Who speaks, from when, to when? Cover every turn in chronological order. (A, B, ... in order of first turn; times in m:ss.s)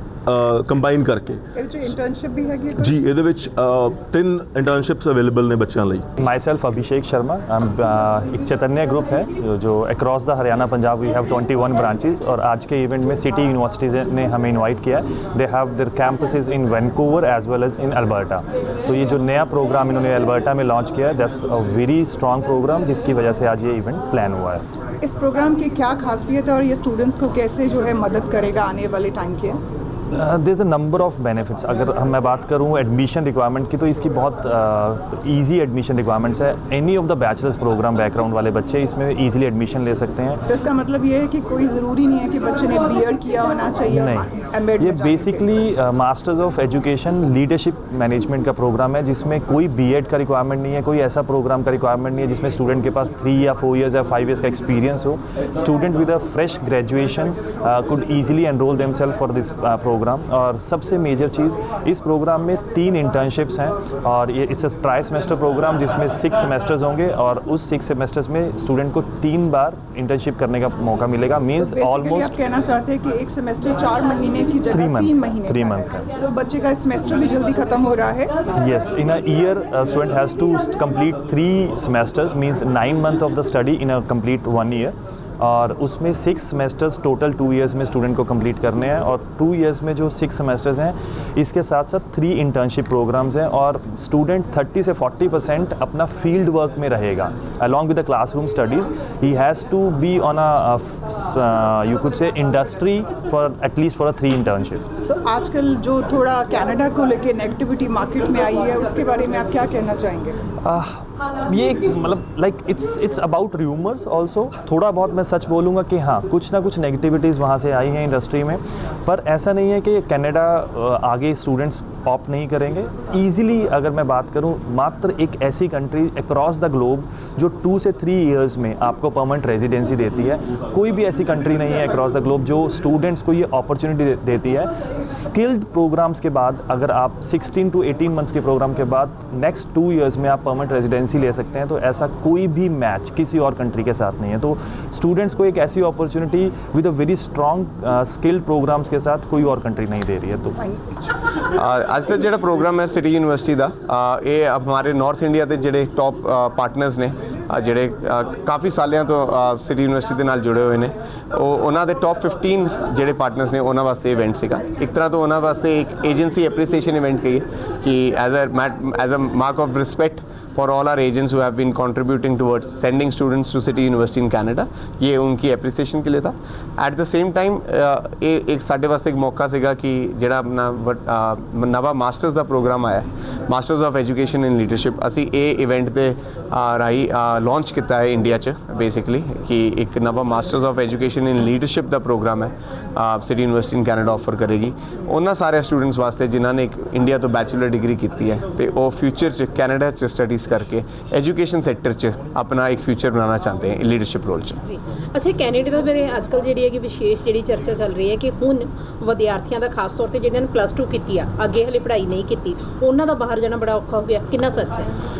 0:00.3-0:01.4 A
0:01.6-0:03.0 B
0:02.8-0:06.0 A
0:06.2-0:24.6 C
0:25.0-0:29.6 B
0:30.1-0:40.4 C
0:40.5-0:45.5 B
0:43.9-1:12.3 C
1:11.6-1:18.3 B
1:14.7-1:16.1 C
1:18.6-1:44.9 C
1:45.0-1:50.4 B
1:50.6-2:30.6 C
2:31.5-3:24.6 D
3:24.6-3:34.9 E